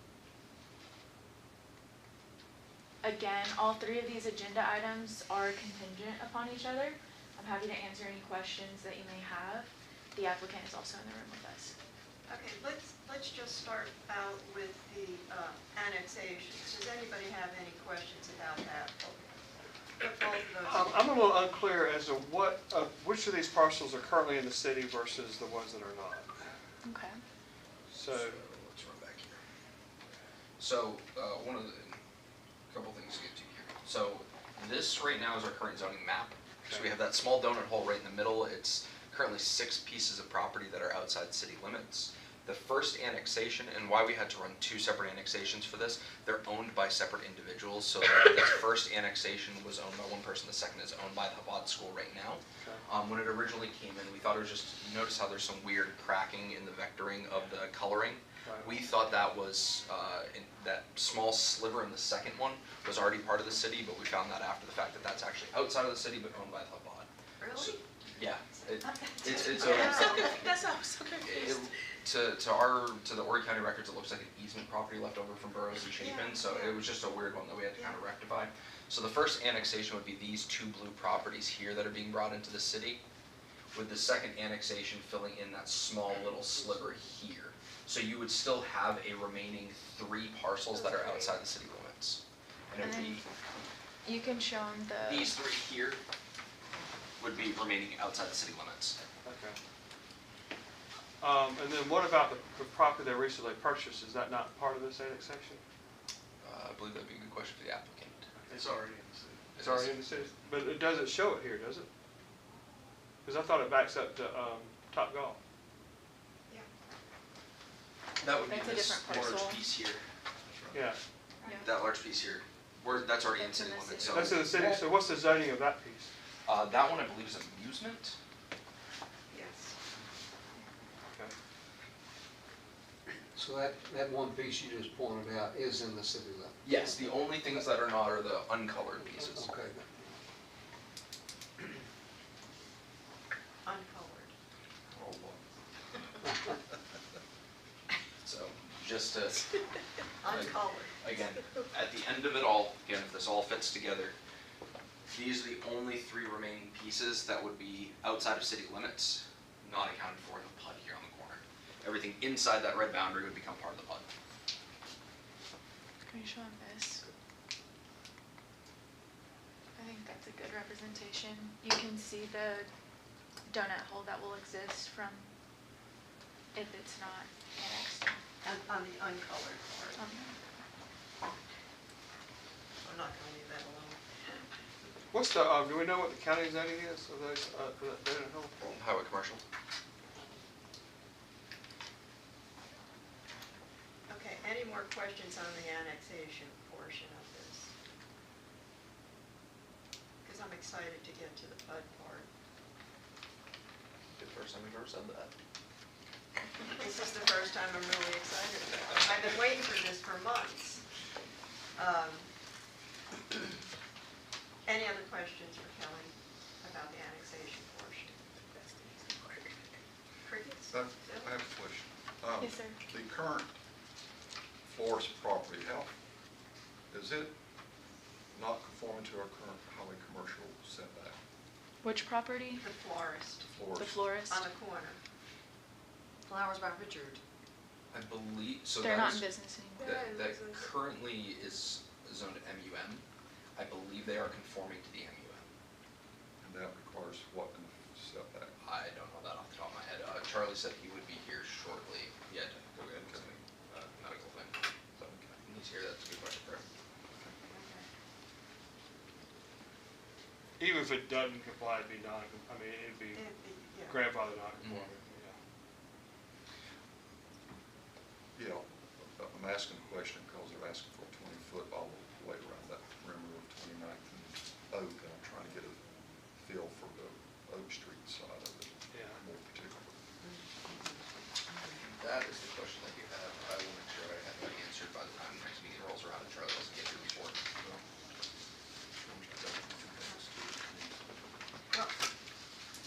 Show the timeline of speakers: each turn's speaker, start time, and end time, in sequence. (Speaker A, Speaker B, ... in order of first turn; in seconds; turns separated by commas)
Speaker A: 3.0-11.7, Speaker B: 12.3-19.4, Speaker B: 20.0-21.0, Speaker C: 20.6-26.3, Speaker A: 26.8-27.2, Speaker C: 27.9-28.4, Speaker D: 28.0-29.4, Speaker D: 30.6-32.0, Speaker D: 32.7-70.5, Speaker C: 58.4-58.8, Speaker B: 67.4-67.8, Speaker B: 68.8-70.5, Speaker A: 69.6-71.6, Speaker D: 71.2-83.0, Speaker B: 76.0-76.9, Speaker B: 77.8-78.0, Speaker D: 83.7-93.3, Speaker A: 92.8-93.2, Speaker A: 94.0-95.3, Speaker D: 95.0-96.0, Speaker D: 97.2-99.0, Speaker C: 99.2-99.6, Speaker C: 101.2-105.6, Speaker D: 106.4-108.3, Speaker C: 108.4-108.9, Speaker E: 108.5-109.3, Speaker C: 109.5-111.9, Speaker D: 109.6-110.3, Speaker C: 113.2-115.4, Speaker D: 118.2-120.0, Speaker A: 118.5-119.6, Speaker F: 120.5-120.7, Speaker C: 120.7-121.0, Speaker A: 121.4-121.7, Speaker D: 121.6-124.5, Speaker A: 123.3-124.4, Speaker C: 124.0-126.1, Speaker E: 124.4-124.9, Speaker D: 126.5-128.2, Speaker B: 129.3-129.8, Speaker E: 133.3-137.0, Speaker D: 136.6-139.5, Speaker E: 139.1-139.9, Speaker B: 143.6-144.3, Speaker F: 144.9-145.4, Speaker D: 148.2-149.6, Speaker B: 150.2-150.9, Speaker D: 150.2-154.2, Speaker D: 155.1-164.1, Speaker A: 166.1-167.1, Speaker A: 169.8-172.7, Speaker A: 173.5-175.3, Speaker A: 176.6-178.2, Speaker B: 178.4-180.0, Speaker A: 180.0-180.4, Speaker B: 182.8-184.6, Speaker C: 185.1-188.5, Speaker D: 188.6-189.4, Speaker B: 194.1-197.7, Speaker B: 200.2-202.3, Speaker D: 204.2-205.3, Speaker B: 206.7-210.8, Speaker B: 211.8-212.3, Speaker B: 214.7-218.2, Speaker B: 220.2-221.3, Speaker F: 220.7-223.6, Speaker A: 222.4-222.8, Speaker F: 224.6-225.9, Speaker F: 226.9-227.3, Speaker F: 228.3-231.2, Speaker A: 231.8-232.6, Speaker B: 232.6-233.5, Speaker F: 233.5-234.0, Speaker A: 233.8-234.5, Speaker B: 234.3-235.0, Speaker B: 236.3-237.2, Speaker D: 237.9-239.3, Speaker A: 238.8-240.0, Speaker D: 239.8-243.0, Speaker D: 243.6-245.5, Speaker F: 246.4-248.6, Speaker D: 248.6-254.6, Speaker F: 253.0-253.3, Speaker F: 255.0-255.4, Speaker D: 255.4-256.6, Speaker B: 257.4-257.9, Speaker C: 260.6-263.3, Speaker B: 263.1-264.1, Speaker C: 263.9-265.4, Speaker D: 264.6-264.9, Speaker F: 268.4-275.8, Speaker F: 276.4-279.9, Speaker C: 278.9-279.2, Speaker B: 280.2-281.9, Speaker D: 281.9-287.4, Speaker D: 289.1-290.9, Speaker F: 289.1-289.9